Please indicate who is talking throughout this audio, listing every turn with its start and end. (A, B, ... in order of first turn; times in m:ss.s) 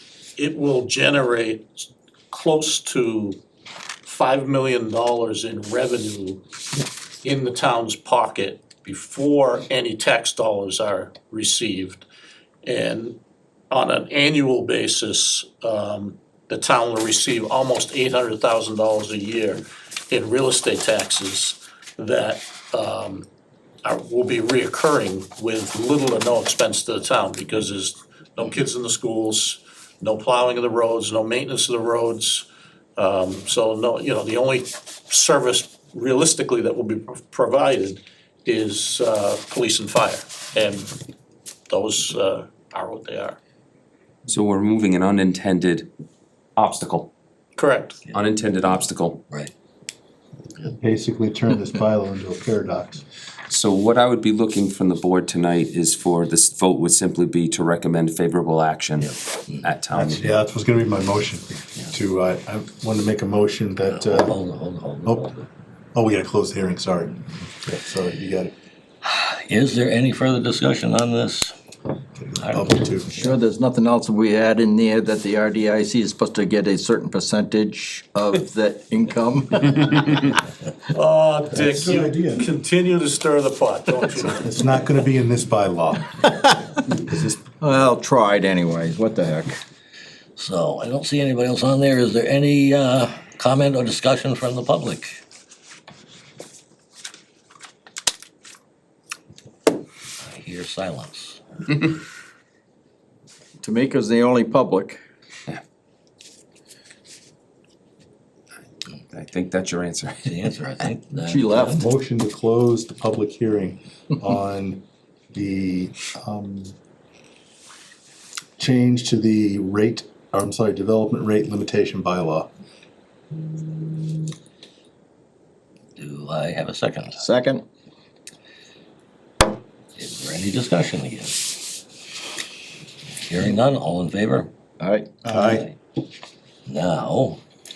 0:00.4-0:03.4 A
0:04.0-0:06.4 A
0:07.2-0:12.0 A
0:12.6-0:13.2 A
0:13.7-0:23.2 A
0:23.8-0:32.4 A
0:33.0-0:40.9 A
0:41.7-0:43.4 A
0:44.3-0:45.9 B
0:46.6-0:47.1 B
0:47.6-0:48.0 A
0:48.1-0:49.2 B
0:50.7-0:53.0 C
0:53.5-1:00.4 B
0:59.9-1:04.3 C
1:03.9-1:05.4 D
1:05.0-1:05.3 C
1:05.9-1:08.5 C
1:09.0-1:11.5 D
1:12.1-1:13.1 C
1:12.4-1:13.3 D
1:13.1-1:19.8 E
1:20.9-1:24.5 A
1:21.5-1:22.5 C
1:24.3-1:27.4 C
1:27.6-1:29.6 E
1:30.4-1:35.2 D
1:40.2-1:41.4 D
1:43.6-1:45.0 E
1:49.1-1:50.4 B
1:50.2-1:51.8 D
1:51.2-1:51.8 E
1:51.7-1:56.7 C
1:58.6-2:02.5 C
2:06.0-2:07.2 D
2:07.2-2:07.6 E
2:10.0-2:11.6 D
2:13.2-2:14.5 D
2:14.8-2:15.6 E
2:15.2-2:15.6 C
2:16.6-2:17.4 D